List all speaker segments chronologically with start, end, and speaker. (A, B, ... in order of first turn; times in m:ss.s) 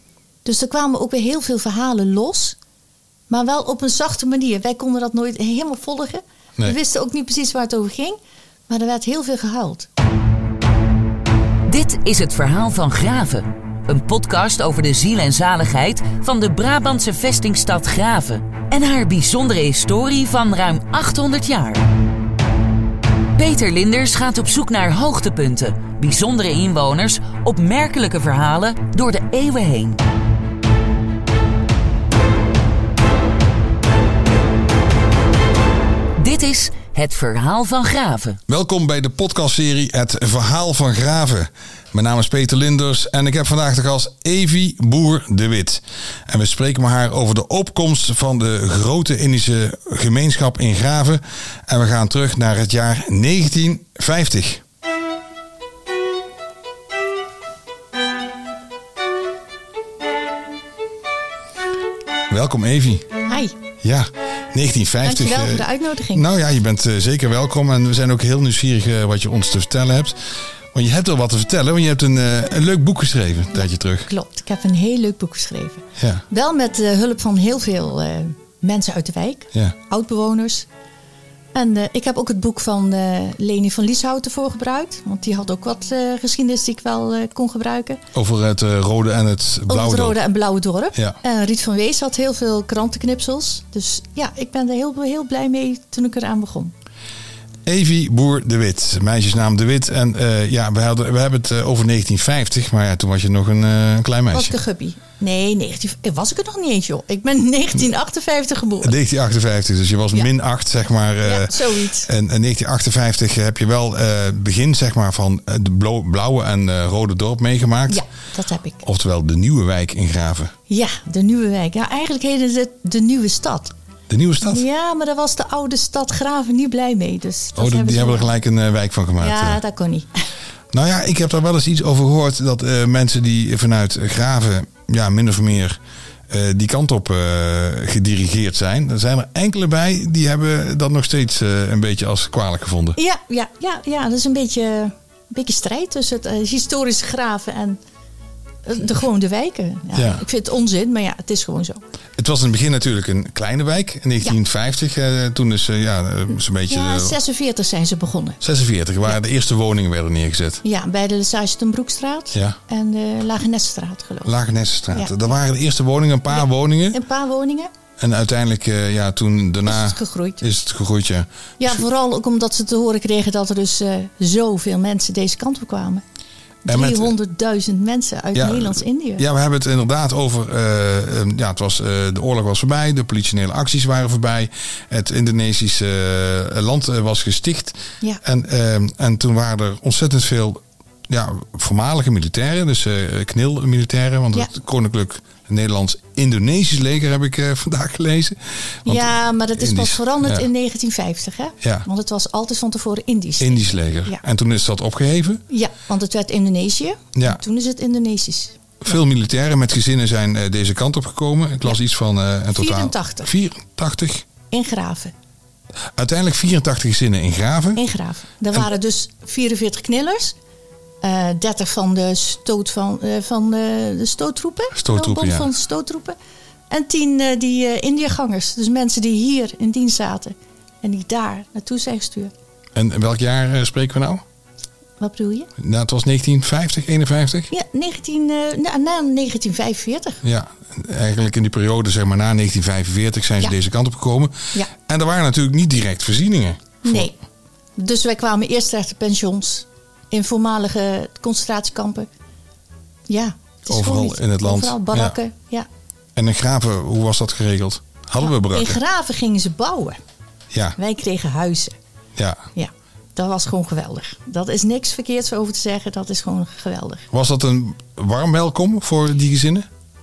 0:00.4-0:02.6 A
0:03.3-0:08.2 A
0:08.7-0:09.9 A
0:11.7-0:21.9 B
0:23.4-0:30.0 B
0:36.2-0:38.4 B
0:38.5-0:54.6 C
1:02.3-1:03.1 C
1:03.3-1:03.5 A
1:03.8-1:14.1 C
1:05.0-1:06.3 A
1:14.0-1:20.7 A
1:16.0-1:16.2 C
1:21.5-1:28.0 A
1:28.1-1:30.2 C
1:29.7-1:36.7 A
1:30.9-1:31.2 C
1:37.6-1:44.6 C
1:44.3-1:49.0 A
1:48.8-1:58.0 C
1:51.2-1:52.1 A
1:57.9-1:58.8 A
1:58.8-2:00.5 C
2:00.7-2:03.7 A
2:04.1-2:04.6 C
2:04.4-2:08.3 A
2:07.6-2:09.6 C
2:09.2-2:10.1 A
2:10.7-2:15.8 C
2:16.3-2:23.0 C
2:23.0-2:27.8 A
2:28.6-2:31.8 A
2:30.0-2:30.2 C
2:32.2-2:37.2 C
2:36.7-2:38.4 A
2:38.4-2:40.6 C
2:40.6-2:44.3 A
2:42.3-2:42.6 C
2:44.2-2:47.0 C
2:46.3-2:47.7 A
2:48.0-2:51.8 C
2:49.7-2:50.5 A
2:51.6-2:56.0 A
2:56.6-2:59.2 A
2:56.7-2:57.1 C
2:58.4-3:20.5 C
3:18.8-3:24.2 A
3:21.6-3:21.9 C
3:23.4-3:25.4 C
3:25.5-3:28.6 A
3:28.8-3:34.3 C
3:32.6-3:33.3 A
3:34.5-3:35.1 A
3:35.9-3:37.8 C
3:37.8-3:40.4 A
3:41.0-3:46.2 A
3:44.7-3:45.5 C
3:46.7-3:52.3 A
3:52.8-3:54.2 C
3:55.0-3:55.5 A
3:55.6-3:57.5 C
3:57.5-4:00.2 A
4:00.2-4:07.1 C
4:06.8-4:07.2 A
4:07.8-4:12.1 A
4:13.1-4:15.7 A
4:13.7-4:15.2 C
4:16.2-4:18.8 C
4:18.2-4:20.0 A
4:20.8-4:21.8 A
4:22.2-4:22.4 C
4:22.6-4:27.1 A
4:27.1-4:29.7 C